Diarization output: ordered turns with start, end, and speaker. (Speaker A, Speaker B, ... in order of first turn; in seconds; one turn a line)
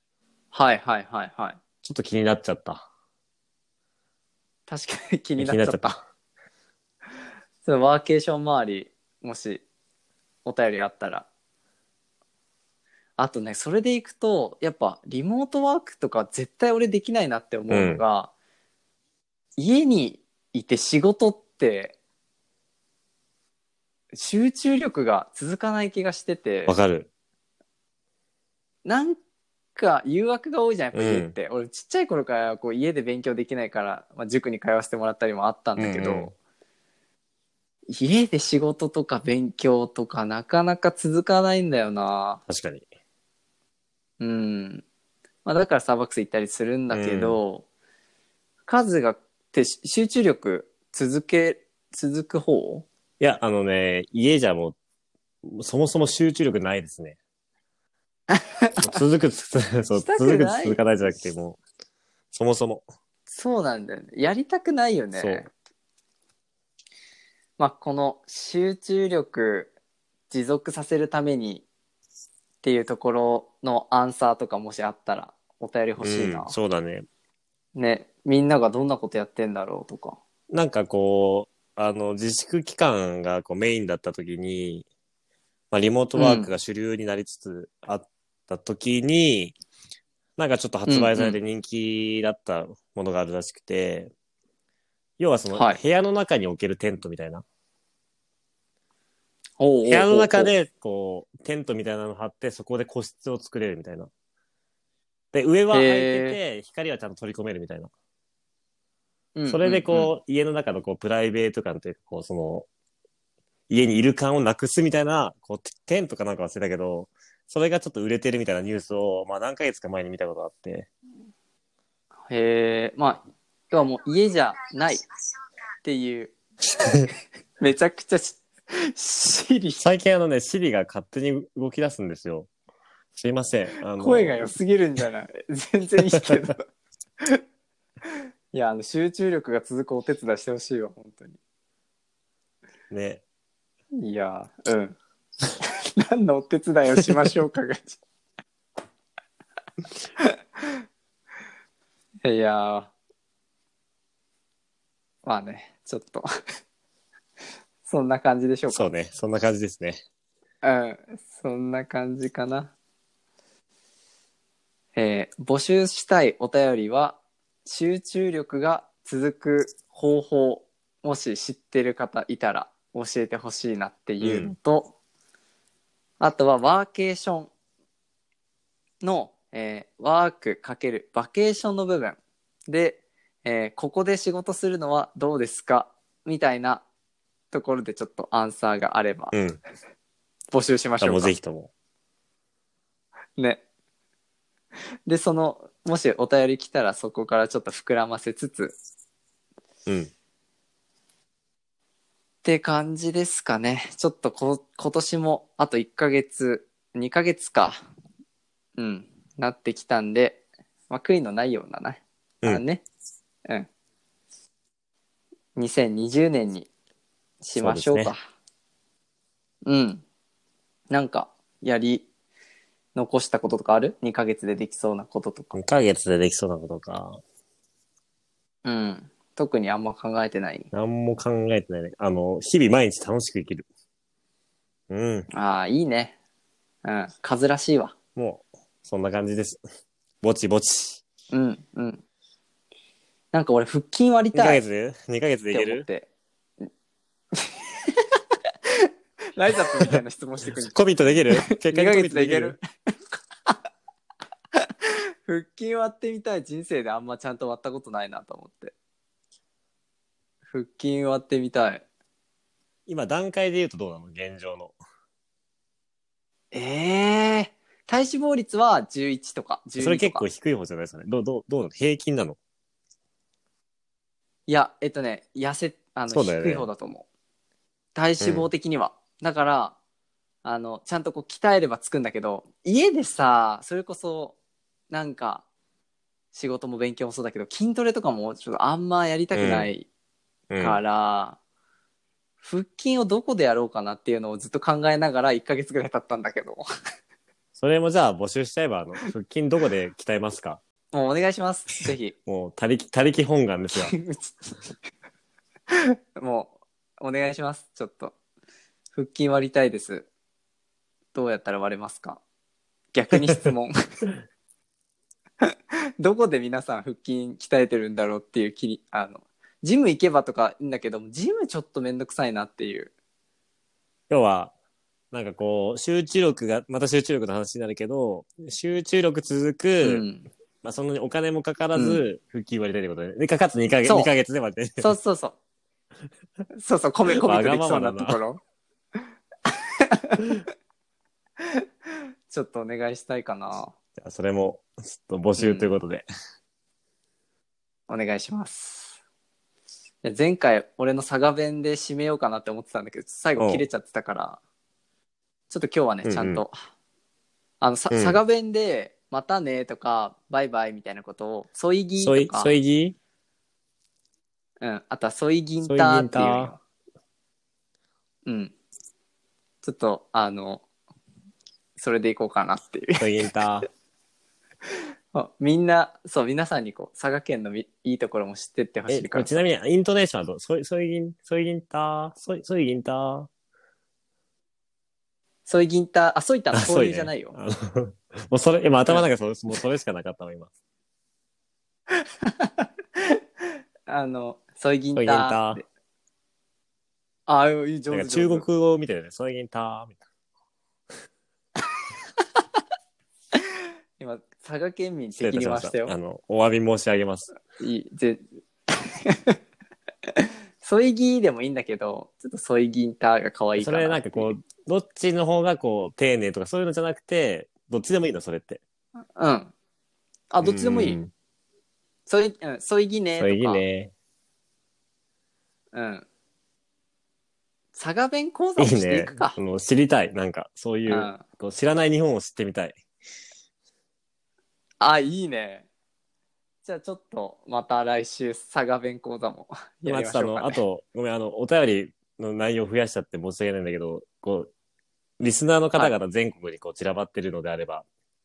Speaker A: 0.5-1.6
Speaker B: 1.8-2.9
Speaker A: 4.7-6.0
Speaker B: 5.4-5.9
Speaker A: 7.6-9.6
Speaker A: 10.4-11.3
Speaker A: 13.2-18.3
Speaker B: 17.7-18.0
Speaker A: 19.6-21.9
Speaker A: 24.1-26.7
Speaker B: 26.7-27.1
Speaker A: 28.9-29.2
Speaker A: 29.8-36.3
Speaker B: 30.9-31.4
Speaker B: 35.8-36.3
Speaker A: 37.9-42.4
Speaker B: 42.5-42.9
Speaker A: 44.2-44.8
Speaker A: 45.5-47.6
Speaker B: 46.9-47.4
Speaker A: 48.7-52.9
Speaker B: 53.2-54.8
Speaker B: 55.4-57.2
Speaker A: 58.3-58.8
Speaker B: 58.8-61.6
Speaker A: 60.0-60.8
Speaker B: 62.3-62.9
Speaker A: 63.3-65.5
Speaker B: 65.1-65.5
Speaker A: 67.6-69.7
Speaker A: 70.3-71.6
Speaker A: 72.6-76.5
Speaker B: 76.0-77.1
Speaker A: 77.8-80.2
Speaker B: 80.5-84.8
Speaker B: 85.7-89.5
Speaker A: 86.2-86.5
Speaker B: 90.4-94.1
Speaker A: 90.9-91.4
Speaker B: 95.2-97.4
Speaker A: 95.5-95.8
Speaker A: 99.6-100.5
Speaker B: 99.9-104.1
Speaker B: 105.3-107.9
Speaker A: 105.7-106.4
Speaker A: 109.3-110.1
Speaker B: 109.5-112.7
Speaker B: 113.7-120.9
Speaker A: 122.3-125.0
Speaker A: 125.8-126.3
Speaker A: 127.6-129.8
Speaker B: 129.8-132.5
Speaker B: 133.2-134.4
Speaker A: 134.0-136.6
Speaker A: 138.1-141.4
Speaker B: 142.9-143.2
Speaker A: 144.0-145.0
Speaker A: 145.6-148.0
Speaker A: 152.2-152.9
Speaker A: 155.2-156.3
Speaker A: 157.9-158.9
Speaker B: 158.7-160.0
Speaker A: 160.6-162.7
Speaker A: 165.0-175.0
Speaker B: 174.2-174.5
Speaker A: 176.2-177.5
Speaker A: 179.0-186.8
Speaker A: 187.5-189.3
Speaker B: 189.3-189.6
Speaker A: 190.5-191.3
Speaker B: 191.0-191.7
Speaker A: 193.4-193.6
Speaker A: 195.1-198.8
Speaker B: 199.9-200.1
Speaker A: 202.4-207.8
Speaker A: 208.8-212.8
Speaker A: 215.6-216.7
Speaker A: 217.4-218.2
Speaker B: 217.6-218.1
Speaker A: 219.6-220.0
Speaker A: 220.9-222.1
Speaker A: 222.9-225.5
Speaker B: 225.5-227.2
Speaker A: 228.6-230.7
Speaker B: 230.7-233.7
Speaker B: 234.9-235.3
Speaker A: 235.3-236.1
Speaker A: 236.8-237.9
Speaker B: 238.2-239.6
Speaker B: 240.2-241.0
Speaker A: 241.3-242.0
Speaker A: 243.3-244.6
Speaker B: 244.3-245.9
Speaker A: 245.5-246.1
Speaker A: 247.3-248.1
Speaker A: 248.8-250.7
Speaker B: 250.6-252.6
Speaker A: 251.3-252.6
Speaker A: 255.3-258.7
Speaker A: 260.5-261.8
Speaker B: 262.9-264.8
Speaker A: 266.5-270.2
Speaker B: 269.8-272.4
Speaker A: 274.5-277.1
Speaker B: 276.1-276.7
Speaker A: 277.9-279.8
Speaker B: 278.2-278.5
Speaker A: 280.4-284.4
Speaker A: 284.9-285.4
Speaker A: 286.3-289.9
Speaker B: 289.3-289.7
Speaker B: 290.5-290.8
Speaker A: 290.6-291.4
Speaker A: 292.4-296.6
Speaker B: 297.6-300.6
Speaker A: 300.9-302.1
Speaker B: 302.3-303.9
Speaker A: 303.7-304.6
Speaker A: 305.7-308.1
Speaker A: 308.9-310.1
Speaker A: 311.1-312.2
Speaker A: 312.9-313.8
Speaker A: 315.4-322.9
Speaker B: 324.1-324.5
Speaker B: 325.1-330.0
Speaker A: 329.8-330.3
Speaker B: 330.6-334.9
Speaker A: 331.8-332.0
Speaker A: 333.9-334.1
Speaker A: 334.8-335.4
Speaker A: 336.5-338.4
Speaker B: 337.2-338.2
Speaker A: 339.5-340.4
Speaker A: 342.3-343.7
Speaker B: 344.0-346.1
Speaker A: 345.4-345.8
Speaker A: 347.9-348.9
Speaker A: 350.0-354.4
Speaker B: 353.4-353.6
Speaker A: 355.5-356.6
Speaker B: 356.1-356.4
Speaker A: 357.6-362.6
Speaker B: 357.9-358.2
Speaker B: 362.0-363.0
Speaker A: 364.6-366.6
Speaker B: 365.6-366.5
Speaker A: 368.3-368.5
Speaker A: 369.6-370.6
Speaker A: 371.8-373.1
Speaker B: 373.0-373.7
Speaker A: 375.1-379.4
Speaker B: 378.9-383.3
Speaker A: 385.5-387.4
Speaker B: 386.5-390.5
Speaker A: 392.2-393.2
Speaker A: 393.9-395.6
Speaker B: 395.0-395.6
Speaker A: 397.3-398.5
Speaker B: 397.9-400.0
Speaker A: 404.0-405.9
Speaker B: 405.2-407.3
Speaker A: 407.6-409.4
Speaker A: 410.2-414.3
Speaker B: 413.6-418.6
Speaker A: 419.1-419.5
Speaker A: 420.3-421.0
Speaker B: 420.4-421.1
Speaker A: 422.1-423.6
Speaker B: 423.2-423.9
Speaker A: 425.7-426.1
Speaker A: 427.7-429.4
Speaker B: 428.6-432.8
Speaker A: 430.9-431.2
Speaker A: 434.8-435.7
Speaker A: 436.6-440.6
Speaker B: 439.9-444.5
Speaker B: 445.2-447.9